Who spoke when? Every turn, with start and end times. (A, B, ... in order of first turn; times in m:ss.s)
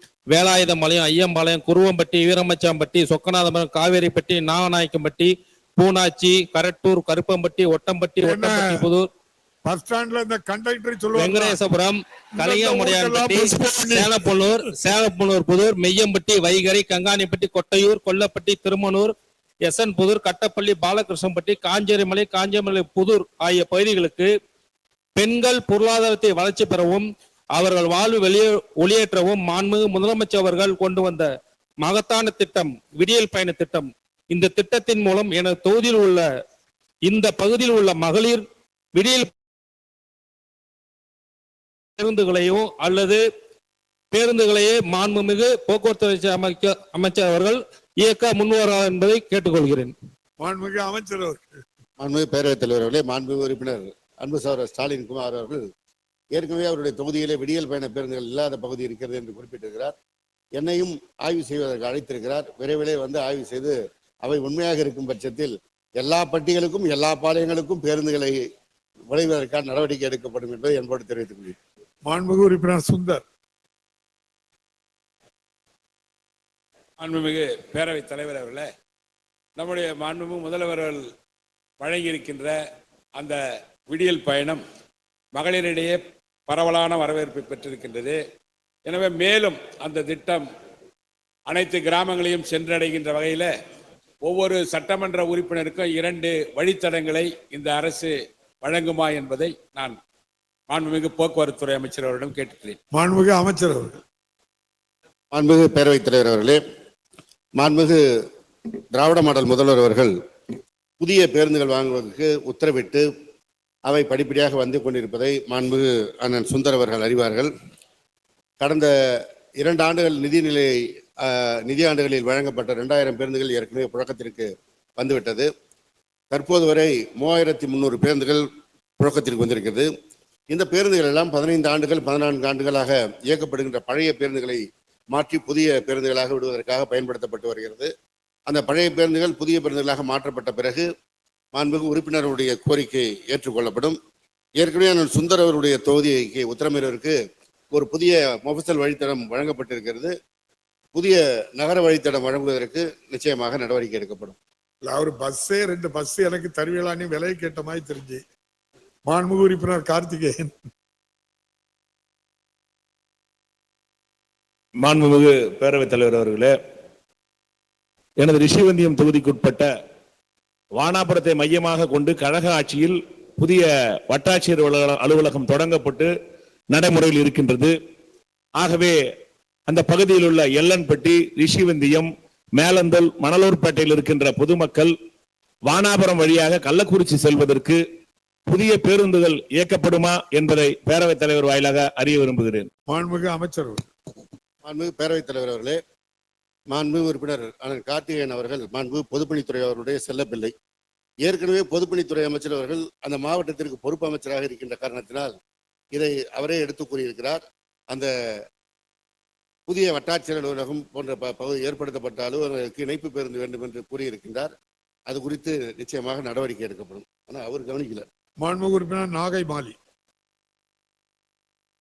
0:00.3-0:09.1 A
0:08.2-0:08.9 B
0:09.6-0:11.6 B
0:11.2-0:19.1 A
0:12.3-0:14.1 B
0:19.6-0:24.3 A
0:25.2-0:31.3 A
0:31.8-0:36.2 A
0:37.0-0:38.4 A
0:38.9-0:39.3 A
0:42.0-0:43.2 A
0:44.1-0:49.9 A
0:50.4-0:51.4 B
0:52.0-0:55.6 C
0:56.3-0:59.9 C
1:00.6-1:08.4 C
1:09.1-1:11.6 C
1:12.0-1:13.2 B
1:17.0-1:18.7 D
1:19.6-1:21.0 D
1:21.8-1:22.6 D
1:23.9-1:24.6 D
1:25.3-1:28.2 D
1:28.8-1:30.5 D
1:31.5-1:33.5 D
1:34.2-1:40.0 D
1:40.7-1:42.8 D
1:42.9-1:44.0 B
1:45.3-1:46.6 C
1:47.6-1:48.0 C
1:48.9-1:50.1 C
1:51.0-1:53.0 C
1:53.9-1:57.5 C
1:58.6-1:58.9 C
1:59.6-2:00.7 C
2:01.2-2:05.5 C
2:06.3-2:08.4 C
2:09.0-2:09.9 C
2:10.5-2:14.6 C
2:15.1-2:17.9 C
2:18.5-2:20.8 C
2:21.5-2:24.0 C
2:24.6-2:27.2 C
2:27.7-2:30.1 C
2:30.9-2:34.4 C
2:34.8-2:38.2 B
2:39.0-2:40.5 B
2:44.8-2:46.5 E
2:48.2-2:49.7 E
2:50.8-2:56.1 E
2:56.7-2:57.7 E
2:58.5-2:59.0 E
2:59.7-3:04.9 E
3:05.6-3:07.8 E
3:08.5-3:12.7 E
3:12.9-3:13.8 B
3:14.6-3:15.8 C
3:16.7-3:20.5 C
3:21.2-3:25.3 C
3:25.9-3:28.1 C
3:29.7-3:34.5 C
3:35.1-3:38.0 C
3:38.4-3:39.8 B